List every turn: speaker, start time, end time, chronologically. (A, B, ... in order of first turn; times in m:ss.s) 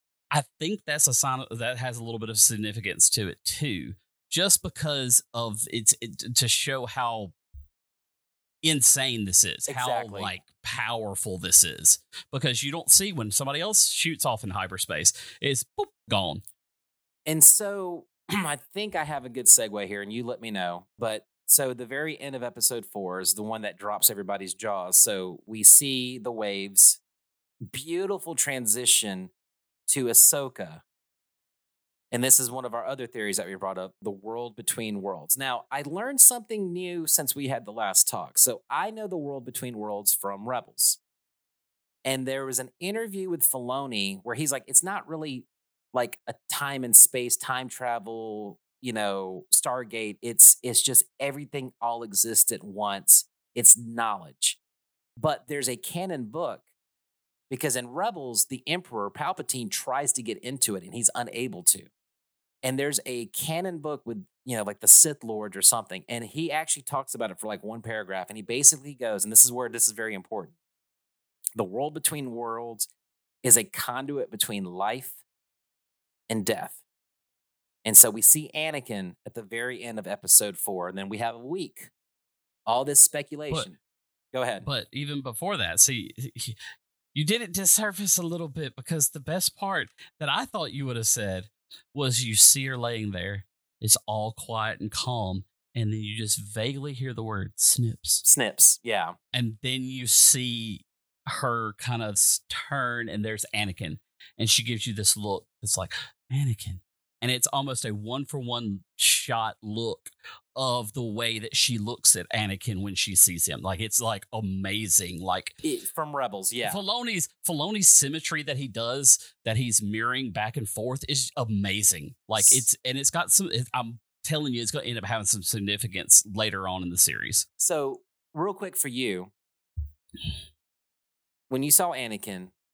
0:00.3-0:07.3 A
0:08.6-0:16.4 A
0:09.7-0:10.3 B
0:17.3-0:27.0 B
0:27.7-0:29.3 B
0:29.9-0:30.8 B
0:32.1-0:41.0 B
0:42.0-0:54.6 B
0:55.2-0:56.6 B
0:57.5-1:01.9 B
1:02.6-1:10.6 B
1:11.6-1:12.9 B
1:13.4-1:15.2 B
1:16.3-1:16.8 B
1:17.8-1:21.9 B
1:22.6-1:23.8 B
1:24.3-1:24.7 B
1:24.6-1:26.6 A
1:27.1-1:38.2 A
1:38.2-1:39.2 B
1:39.3-1:55.6 A
1:55.6-1:56.8 B
1:56.6-2:07.4 A
2:07.6-2:09.3 B
2:11.5-2:12.5 B